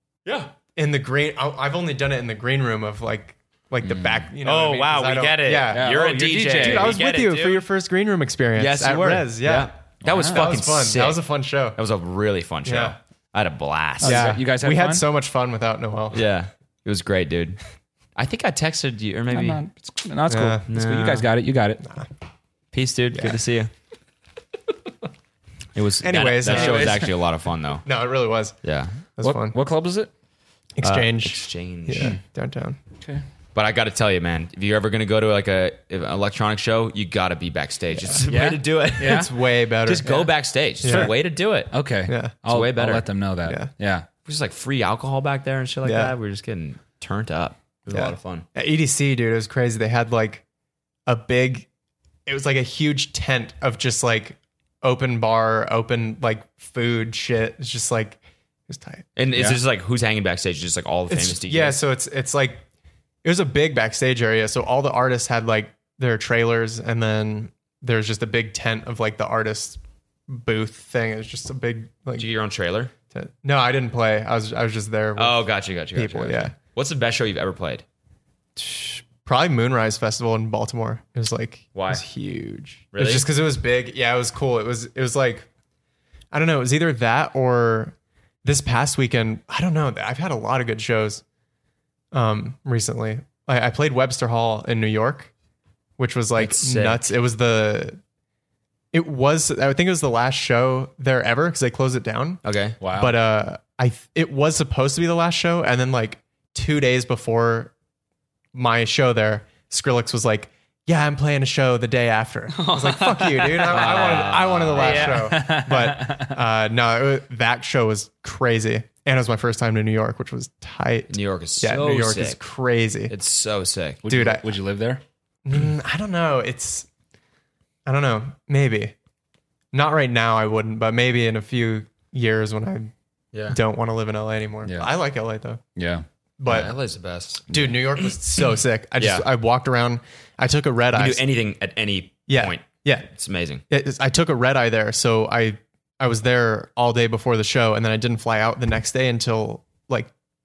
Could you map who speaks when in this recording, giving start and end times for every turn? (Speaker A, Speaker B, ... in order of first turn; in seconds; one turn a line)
Speaker A: 0.3-0.5
Speaker B: 0.8-11.8
Speaker C: 3.8-4.3
Speaker A: 4.4-7.7
Speaker C: 5.7-7.0
Speaker A: 8.6-11.2
Speaker C: 10.0-10.6
Speaker A: 11.8-14.3
Speaker B: 12.7-13.0
Speaker C: 14.0-15.1
Speaker B: 14.0-16.2
Speaker A: 16.1-17.6
Speaker A: 18.2-19.6
Speaker C: 19.3-21.8
Speaker B: 20.3-20.6
Speaker A: 20.7-21.3
Speaker A: 22.7-23.7
Speaker B: 23.1-23.4
Speaker A: 25.8-27.9
Speaker B: 26.0-27.1
Speaker C: 26.4-27.1
Speaker B: 27.9-28.6
Speaker A: 28.6-29.0
Speaker B: 29.2-29.6
Speaker C: 29.2-30.1
Speaker B: 30.8-32.8
Speaker A: 30.8-32.2
Speaker A: 33.5-39.3
Speaker C: 38.3-39.3
Speaker B: 39.0-40.3
Speaker A: 39.9-41.7
Speaker B: 40.8-41.1
Speaker C: 40.8-41.1
Speaker C: 41.7-44.1
Speaker B: 42.1-42.4
Speaker A: 42.5-43.0
Speaker B: 43.5-43.7
Speaker A: 44.2-48.5
Speaker B: 45.8-46.1
Speaker B: 47.9-50.4
Speaker B: 51.1-51.7
Speaker B: 52.3-59.1
Speaker A: 59.2-61.8
Speaker B: 61.1-62.6
Speaker B: 63.2-72.3
Speaker A: 72.2-72.9
Speaker B: 73.1-76.5
Speaker A: 75.2-77.8
Speaker B: 78.6-85.5
Speaker A: 81.7-82.0
Speaker A: 82.9-83.3
Speaker B: 86.3-91.2
Speaker B: 92.1-95.3
Speaker B: 96.0-98.0
Speaker A: 96.4-97.0
Speaker B: 98.9-107.7
Speaker A: 102.4-102.8
Speaker C: 102.8-103.2
Speaker B: 108.5-123.1
Speaker C: 112.5-116.4
Speaker A: 113.7-115.2
Speaker A: 121.1-122.4
Speaker A: 123.1-124.0
Speaker C: 124.0-125.0
Speaker B: 124.1-124.5
Speaker B: 125.5-126.9
Speaker B: 127.9-128.9
Speaker B: 129.7-132.9
Speaker B: 133.5-135.6
Speaker C: 135.8-136.1
Speaker B: 136.4-136.8
Speaker A: 136.5-138.1
Speaker B: 137.5-141.2
Speaker A: 139.0-139.3
Speaker A: 140.9-143.6
Speaker B: 142.3-143.1
Speaker B: 143.7-150.1